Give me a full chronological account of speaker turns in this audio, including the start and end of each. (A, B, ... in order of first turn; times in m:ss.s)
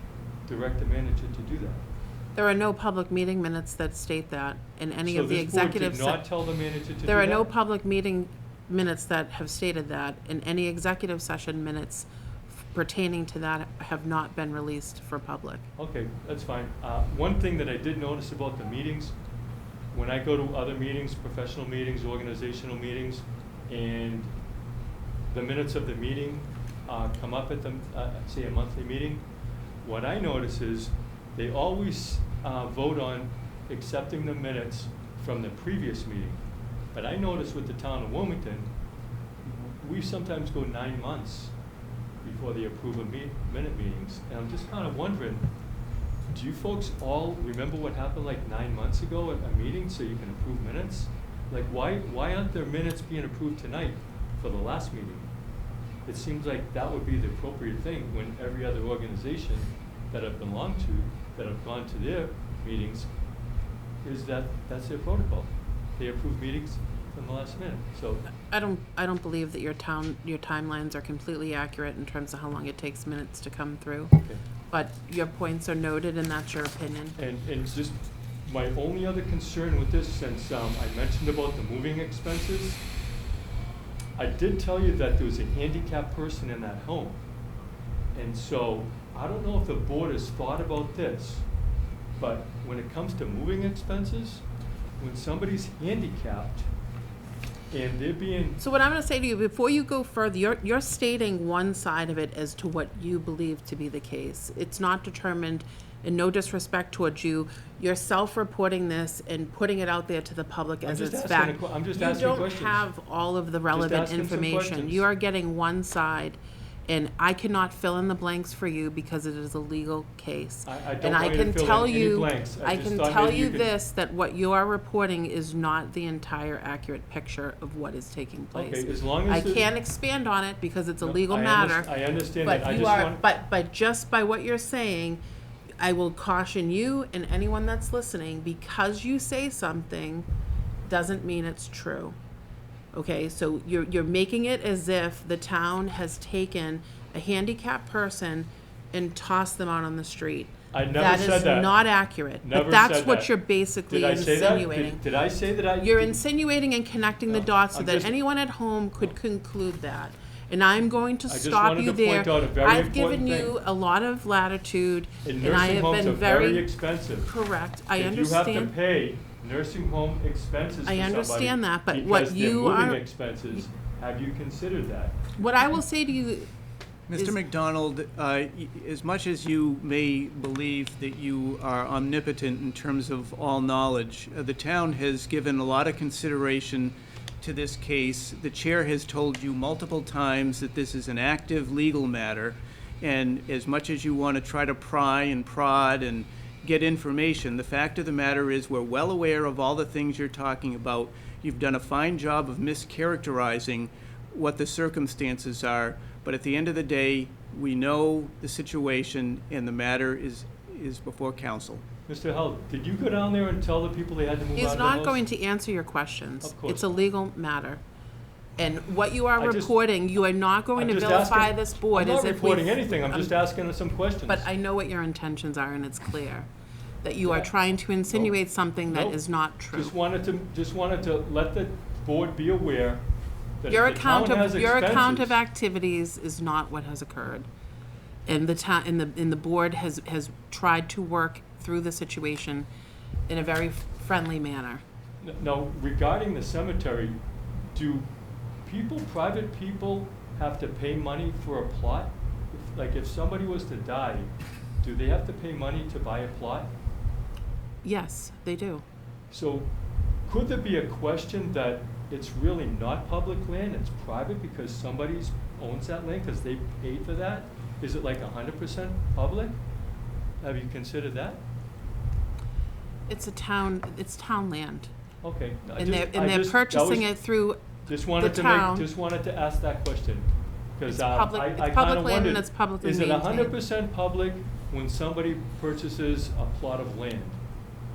0:00.5-0:01.8 A
0:02.4-0:06.2 B
0:05.0-0:07.5 A
0:07.1-0:15.7 B
0:15.8-0:19.2 A
0:19.9-0:24.3 A
0:25.3-0:29.2 A
0:29.8-0:36.4 A
0:36.9-0:38.7 A
0:39.5-0:39.7 C
0:39.8-0:41.5 A
0:42.2-0:45.5 A
0:46.3-0:55.3 A
0:56.1-1:03.1 A
1:04.0-1:08.3 A
1:08.5-1:14.2 B
1:14.7-1:17.2 B
1:17.2-1:22.8 A
1:24.2-1:27.2 A
1:28.2-1:31.5 A
1:32.2-1:34.4 A
1:35.0-1:36.7 A
1:37.7-1:38.6 A
1:38.6-2:15.2 B
1:50.8-1:52.9 A
1:53.7-1:55.0 A
2:00.7-2:03.7 A
2:08.5-2:09.7 A
2:11.0-2:13.2 A
2:15.8-2:20.3 B
2:20.8-2:22.2 B
2:22.9-2:35.0 B
2:30.7-2:31.8 A
2:32.4-2:33.3 A
2:33.9-2:36.2 A
2:35.8-2:48.8 B
2:37.3-2:38.2 A
2:41.3-2:43.5 A
2:45.2-2:47.3 A
2:47.9-2:55.2 A
2:50.9-2:53.1 B
2:55.4-2:56.5 B
2:57.1-3:31.8 C
3:32.1-3:35.2 A
3:34.6-3:37.8 B
3:36.4-3:36.9 A
3:38.6-3:43.4 B
3:39.4-3:39.8 A
3:40.8-3:44.5 A
3:44.3-3:46.5 B
3:47.0-3:50.0 B
3:47.2-3:47.5 A
3:48.1-3:49.2 A
3:49.7-3:53.0 A
3:53.6-3:55.4 A
3:53.7-3:57.5 B
3:58.3-4:02.7 B
4:03.3-4:04.8 B
4:05.2-4:08.1 A
4:08.6-4:14.3 A
4:14.8-4:16.7 A
4:17.8-4:18.8 B
4:19.3-4:19.7 A
4:20.3-4:29.6 A
4:30.4-4:31.4 A
4:33.1-4:34.9 B
4:35.2-4:37.1 A
4:35.8-4:38.9 B
4:37.9-4:47.4 A
4:40.9-4:43.6 B